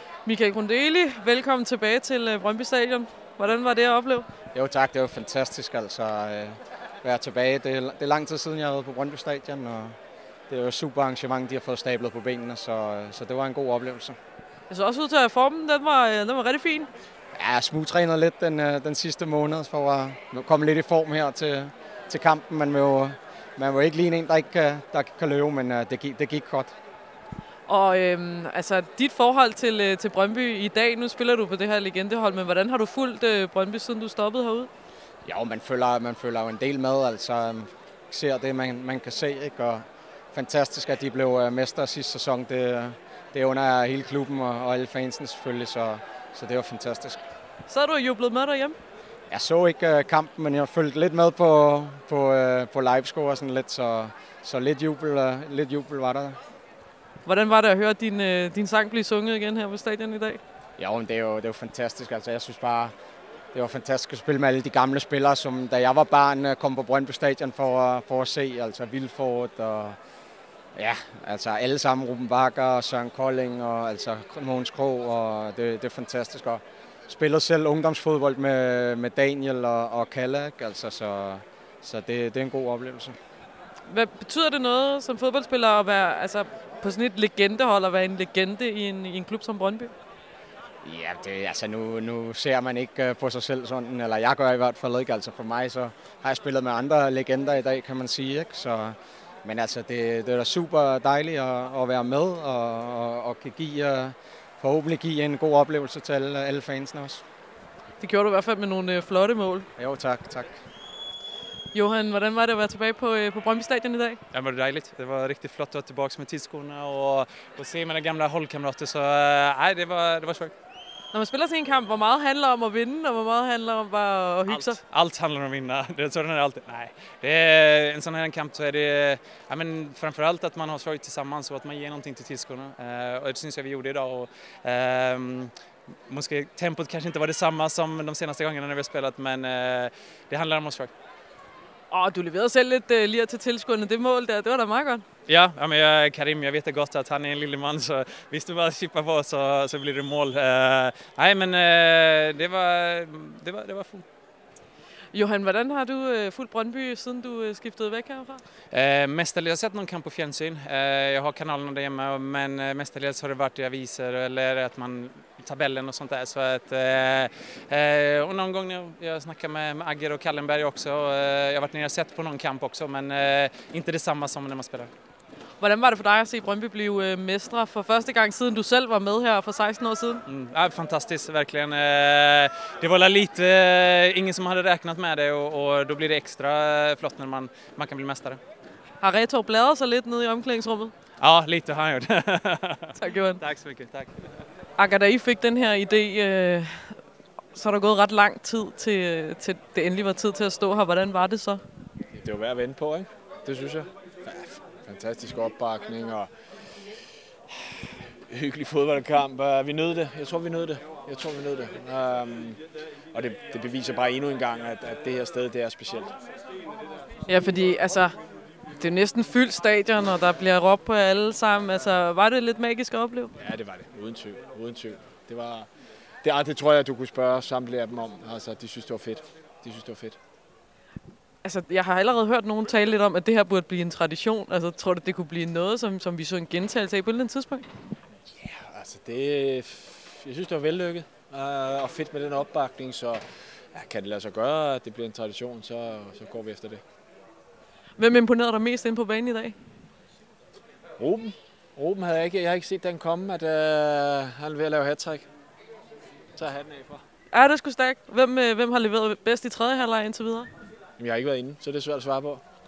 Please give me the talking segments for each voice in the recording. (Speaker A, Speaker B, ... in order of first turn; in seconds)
Speaker A: 0.2-4.3, 14.7-16.9, 27.7-34.7, 47.7-48.8, 57.2-60.4, 83.9-89.9, 108.0-109.7, 111.7-114.2, 121.1-124.8, 141.9-145.1, 155.1-158.4, 175.6-180.2, 189.0-190.9, 193.0-193.4, 194.8-197.0, 197.5-201.6, 217.3-218.2, 218.8-223.3, 231.4-237.7, 248.0-249.6, 257.3-260.5
Speaker B: 4.5-9.9, 10.5-14.2, 17.4-26.7, 35.2-47.2, 49.3-56.4, 60.8-62.9, 63.5-70.0, 70.8-83.2, 90.8-107.2, 109.8-110.6
Speaker C: 114.3-120.5, 124.5-135.5, 136.1-140.9, 145.3-154.1, 158.7-174.9, 180.3-188.4, 191.2-194.2
Speaker D: 202.1-206.3, 208.3-212.6, 213.1-216.2, 223.4-225.7, 226.2-230.2, 238.3-246.8, 251.0-255.3, 256.4-257.0, 261.0-262.4